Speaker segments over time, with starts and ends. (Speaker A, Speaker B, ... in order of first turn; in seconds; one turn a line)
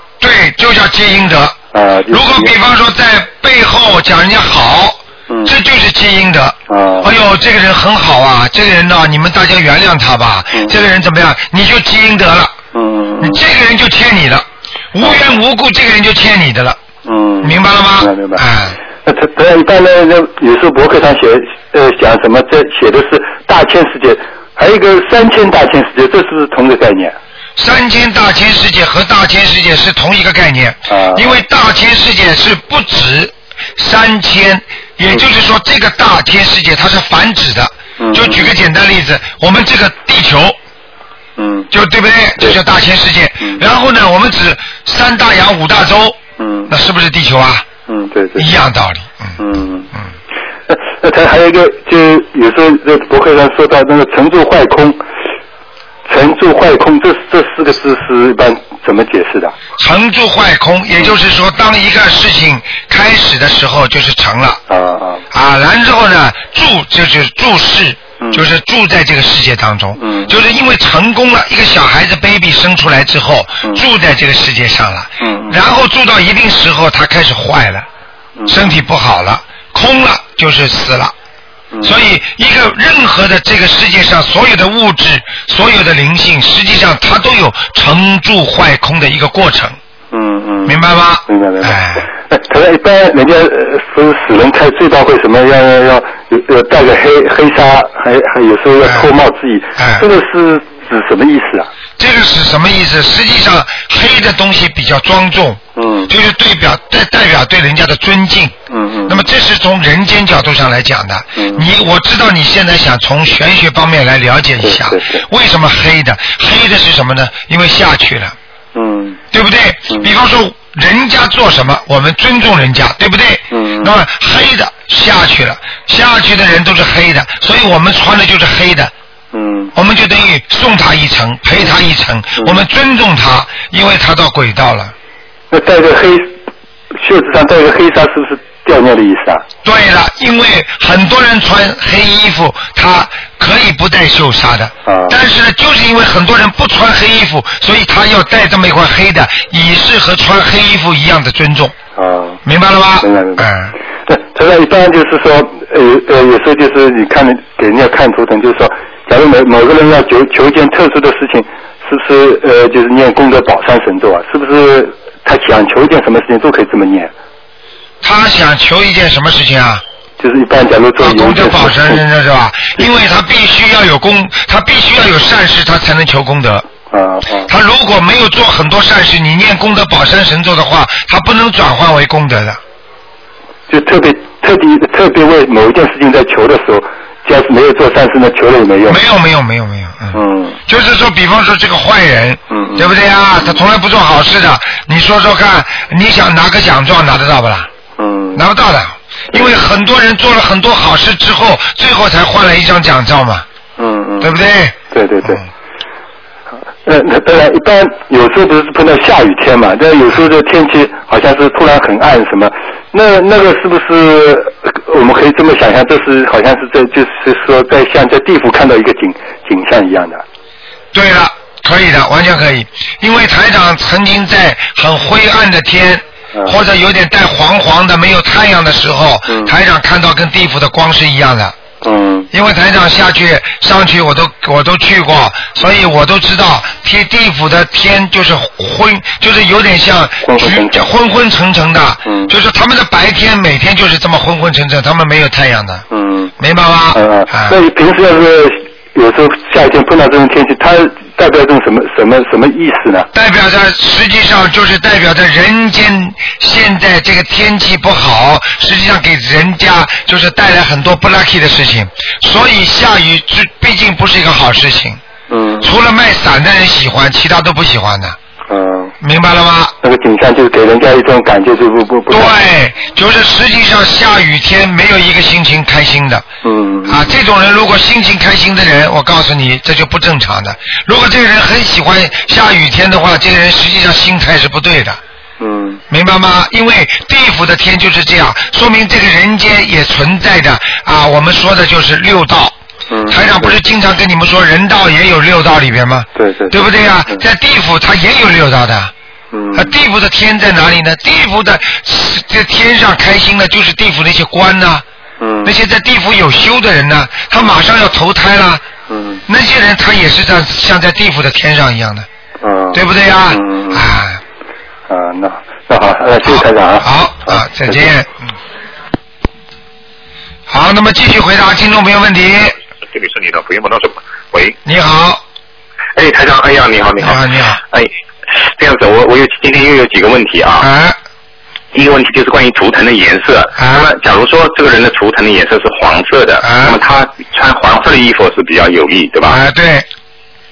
Speaker A: 0.2-1.6
Speaker B: 1.7-2.5
Speaker A: 2.1-12.5
Speaker B: 6.7-7.1
Speaker B: 12.7-13.4
Speaker A: 13.2-16.8
Speaker B: 17.1-18.4
Speaker A: 17.4-18.8
Speaker B: 19.1-27.2
Speaker A: 27.6-40.6
Speaker B: 30.9-31.3
Speaker B: 38.0-38.5
Speaker B: 41.4-41.7
Speaker A: 41.7-46.2
Speaker B: 46.4-46.7
Speaker A: 46.7-47.6
Speaker B: 47.9-48.5
Speaker A: 48.4-49.4
Speaker B: 49.4-49.9
Speaker B: 50.7-55.0
Speaker B: 56.1-59.6
Speaker A: 59.8-64.6
Speaker B: 64.7-65.2
Speaker A: 65.3-77.9
Speaker B: 68.2-68.5
Speaker B: 70.0-70.3
Speaker B: 75.2-75.6
Speaker A: 78.5-81.1
Speaker B: 81.7-82.0
Speaker A: 81.8-89.8
Speaker B: 90.1-101.7
Speaker A: 90.7-92.0
Speaker A: 98.8-99.1
Speaker A: 99.8-100.0
Speaker A: 102.0-108.5
Speaker B: 105.8-106.1
Speaker B: 108.7-109.2
Speaker A: 109.1-118.4
Speaker B: 111.4-111.7
Speaker B: 114.6-115.2
Speaker B: 118.7-119.2
Speaker A: 119.3-128.9
Speaker B: 123.5-124.0
Speaker B: 129.3-129.7
Speaker A: 129.8-134.9
Speaker B: 135.5-136.3
Speaker B: 137.0-139.4
Speaker A: 139.6-151.8
Speaker B: 144.9-145.2
Speaker B: 152.0-152.4
Speaker A: 152.4-153.8
Speaker B: 153.0-153.5
Speaker B: 154.1-167.1
Speaker A: 168.0-169.8
Speaker B: 170.2-172.0
Speaker A: 171.0-176.7
Speaker B: 176.9-177.5
Speaker A: 177.5-182.6
Speaker B: 183.7-189.0
Speaker A: 188.9-197.7
Speaker B: 190.1-190.6
Speaker B: 192.5-192.9
Speaker B: 198.0-198.4
Speaker A: 198.3-203.5
Speaker B: 203.8-204.3
Speaker A: 204.2-205.4
Speaker B: 204.9-205.4
Speaker B: 206.9-220.2
Speaker A: 220.9-231.6
Speaker B: 229.3-229.6
Speaker B: 231.8-232.3
Speaker A: 232.3-245.9
Speaker B: 240.2-240.9
Speaker B: 242.1-242.3
Speaker B: 245.9-246.3
Speaker A: 246.4-247.6
Speaker B: 246.9-253.1
Speaker A: 253.1-265.0
Speaker B: 265.3-265.7
Speaker A: 265.6-268.2
Speaker B: 268.5-268.9
Speaker A: 269.0-269.7
Speaker B: 269.8-272.3
Speaker A: 272.1-276.3
Speaker B: 276.4-277.1
Speaker A: 276.9-285.0
Speaker B: 285.4-285.8
Speaker A: 285.9-292.6
Speaker B: 292.9-293.5
Speaker A: 293.1-298.9
Speaker B: 296.2-297.2
Speaker B: 299.3-299.7
Speaker A: 299.5-304.9
Speaker B: 305.2-305.6
Speaker A: 305.4-308.6
Speaker B: 308.9-309.2
Speaker A: 309.3-312.1
Speaker B: 312.4-313.8
Speaker A: 312.7-314.2
Speaker B: 314.9-317.9
Speaker A: 316.2-318.3
Speaker A: 320.5-322.6
Speaker C: 322.9-324.6
Speaker A: 324.6-325.2
Speaker C: 325.9-327.2
Speaker A: 327.0-327.6
Speaker C: 327.7-330.7
Speaker A: 330.6-331.0
Speaker C: 331.7-339.4
Speaker A: 333.6-333.9
Speaker A: 336.4-336.8
Speaker A: 339.2-339.9